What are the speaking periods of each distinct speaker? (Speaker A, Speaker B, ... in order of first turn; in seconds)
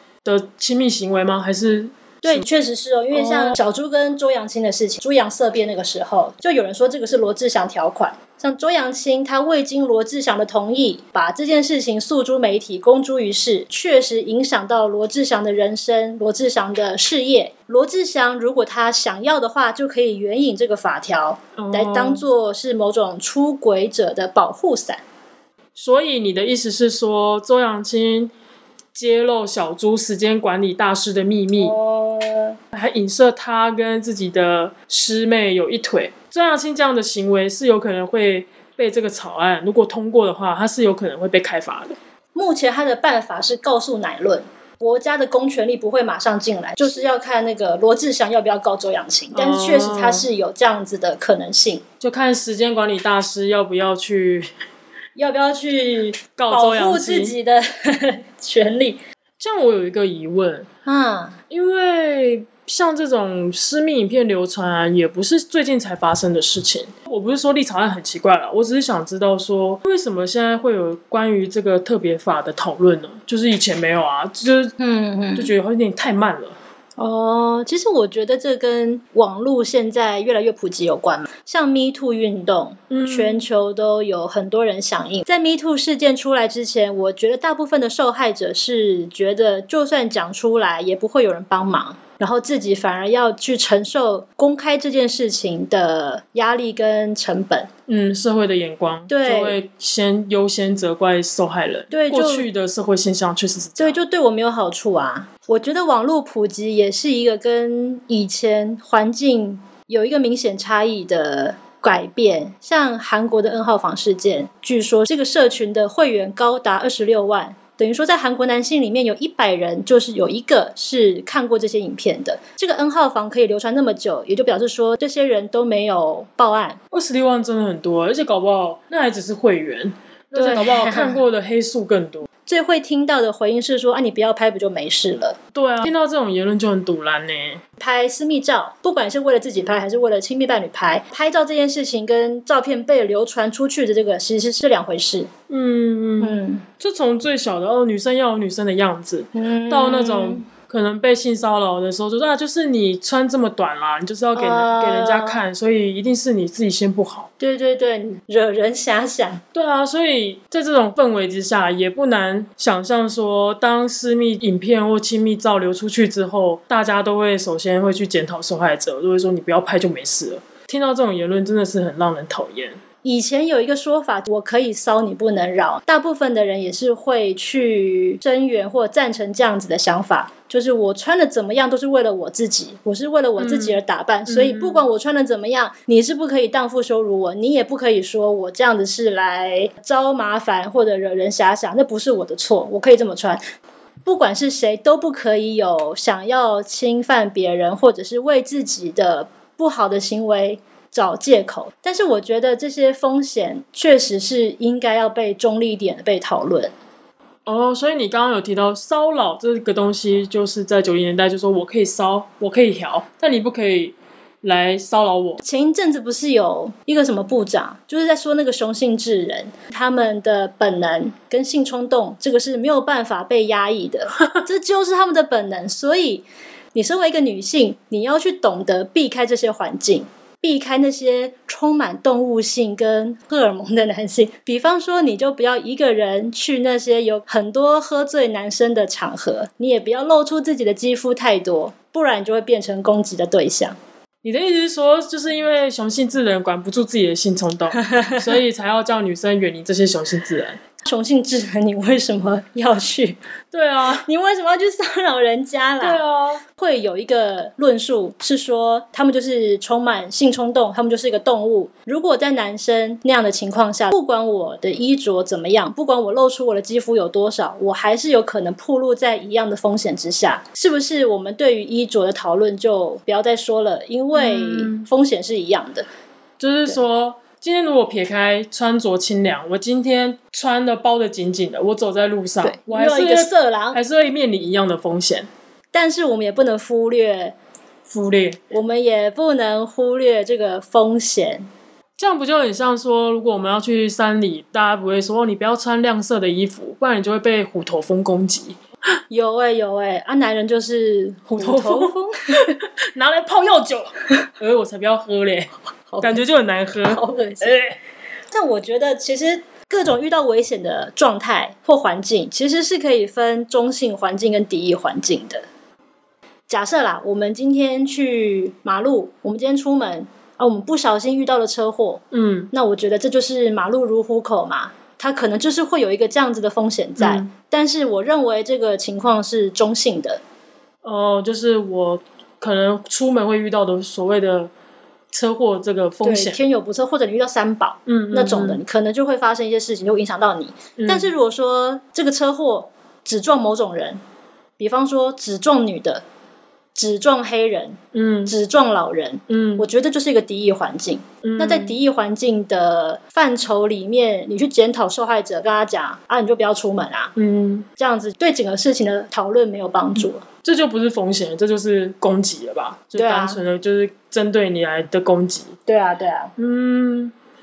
Speaker A: 0.2-2.5, 3.1-3.6, 21.6-22.2, 25.8-28.3, 28.9-31.8, 32.7-42.0, 49.3-50.3, 52.0-54.5, 56.4-57.4, 59.4-60.7, 61.5-74.7, 75.4-76.6, 82.9-83.4, 97.9-104.0, 126.9-132.3, 135.5-137.6, 145.5-157.3, 159.5-172.8, 183.4-184.9, 207.5-215.4, 244.2-250.6, 253.5-254.1, 255.8-256.4, 274.1-274.9, 276.4-285.3, 287.9-288.4, 292.0-298.6, 301.4-301.9, 302.5-307.8, 322.1-322.5, 327.0-327.3, 330.8-334.5, 335.1-336.4, 337.9-338.6, 340.8-341.1, 347.9-348.3, 349.3-349.7, 351.2-351.8, 357.2-357.7, 360.4-365.6, 366.4-367.1
Speaker B: 2.2-25.0, 31.6-32.6, 42.4-51.8, 55.2-59.0, 60.9-61.4, 74.8-75.5, 77.0-97.7, 99.1-99.6, 101.9-102.5, 103.8-126.8, 130.3-131.2, 132.5-135.4, 137.8-145.3, 146.2-146.7, 149.3-150.5, 154.3-155.4, 157.4-159.4, 173.0-193.4, 194.1-206.7, 215.4-243.8, 247.8-248.2, 250.8-253.2, 254.0-256.0, 256.6-275.9, 282.4-283.8, 285.7-287.4, 288.5-291.5, 299.1-302.5, 305.9-306.2, 306.9-307.6, 308.3-315.5, 316.5-330.2, 336.0-344.0, 344.6-346.0, 346.8-357.1, 357.8-360.2, 362.9-363.4, 365.7-366.3